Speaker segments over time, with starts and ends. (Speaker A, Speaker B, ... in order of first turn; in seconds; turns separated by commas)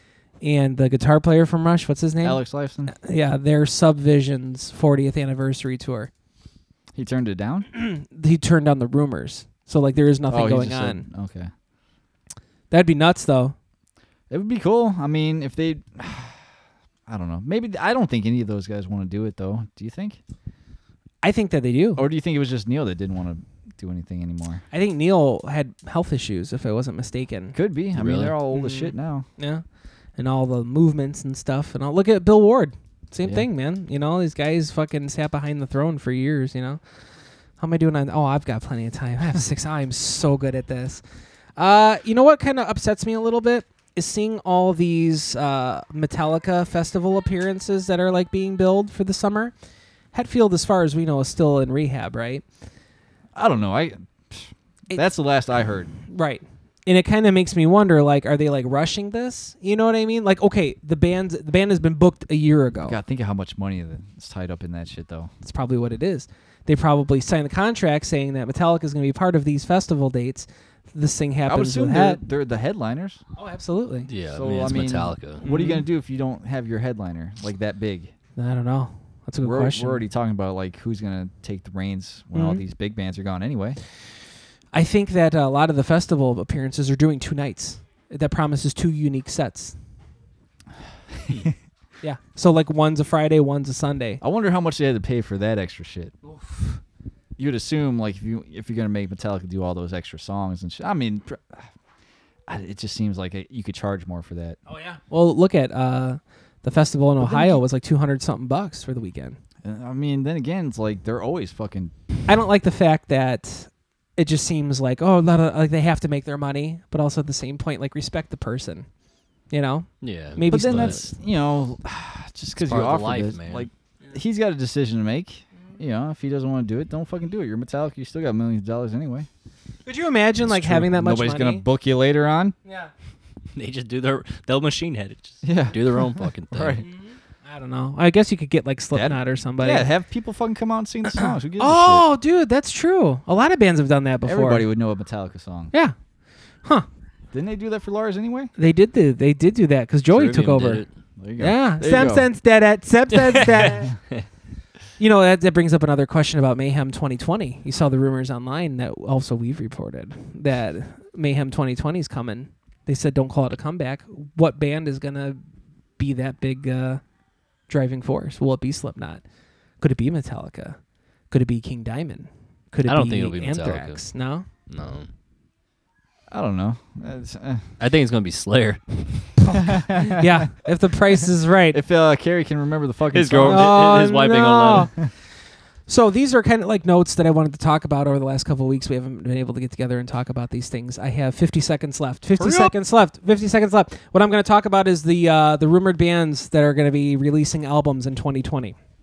Speaker A: 0.4-6.1, Speaker B: 2.2-3.0, Speaker B: 6.9-7.7, Speaker A: 7.7-11.1, Speaker B: 10.3-11.5, Speaker A: 12.7-13.5, Speaker B: 14.3-16.4, Speaker B: 17.1-20.2, Speaker A: 21.2-22.0, Speaker B: 22.0-24.6, Speaker A: 24.7-27.6, Speaker B: 27.5-29.3, Speaker C: 27.9-28.4, Speaker A: 28.5-36.8, Speaker A: 37.6-41.0, Speaker A: 41.6-49.5, Speaker A: 50.1-52.4, Speaker B: 53.4-55.9, Speaker A: 56.1-63.0, Speaker B: 62.9-65.3, Speaker A: 65.4-72.2, Speaker B: 71.5-73.2, Speaker A: 73.4-74.1, Speaker C: 74.1-75.5, Speaker B: 74.3-78.1, Speaker A: 75.4-75.8, Speaker A: 78.4-80.0, Speaker B: 79.4-83.8, Speaker A: 82.3-82.6, Speaker A: 84.7-89.8, Speaker A: 92.0-94.2, Speaker B: 94.2-96.2, Speaker B: 97.4-101.7, Speaker B: 102.5-104.6, Speaker A: 104.7-109.4, Speaker B: 107.2-107.6, Speaker B: 109.6-111.9, Speaker A: 112.3-118.9, Speaker A: 119.5-121.1, Speaker C: 120.0-121.0, Speaker B: 120.5-129.3, Speaker C: 122.6-123.7, Speaker A: 129.9-131.6, Speaker B: 130.4-132.6, Speaker C: 133.6-136.8, Speaker B: 135.4-136.9, Speaker A: 136.8-139.9, Speaker B: 138.9-142.1, Speaker A: 141.2-144.7, Speaker B: 144.2-145.7, Speaker B: 147.3-148.5, Speaker A: 148.6-150.8, Speaker C: 150.1-150.9, Speaker B: 151.2-152.3, Speaker A: 151.4-154.0, Speaker C: 153.2-153.6, Speaker A: 155.0-165.4, Speaker A: 166.0-167.0, Speaker A: 167.7-169.2, Speaker A: 169.8-170.8, Speaker A: 171.3-174.5, Speaker C: 172.8-174.1, Speaker C: 174.7-175.1, Speaker B: 176.3-177.7, Speaker C: 177.8-179.6, Speaker B: 179.5-180.5, Speaker A: 180.1-181.8, Speaker B: 181.7-183.8, Speaker C: 183.1-184.9, Speaker A: 183.4-184.9, Speaker A: 185.9-198.8, Speaker B: 192.4-192.7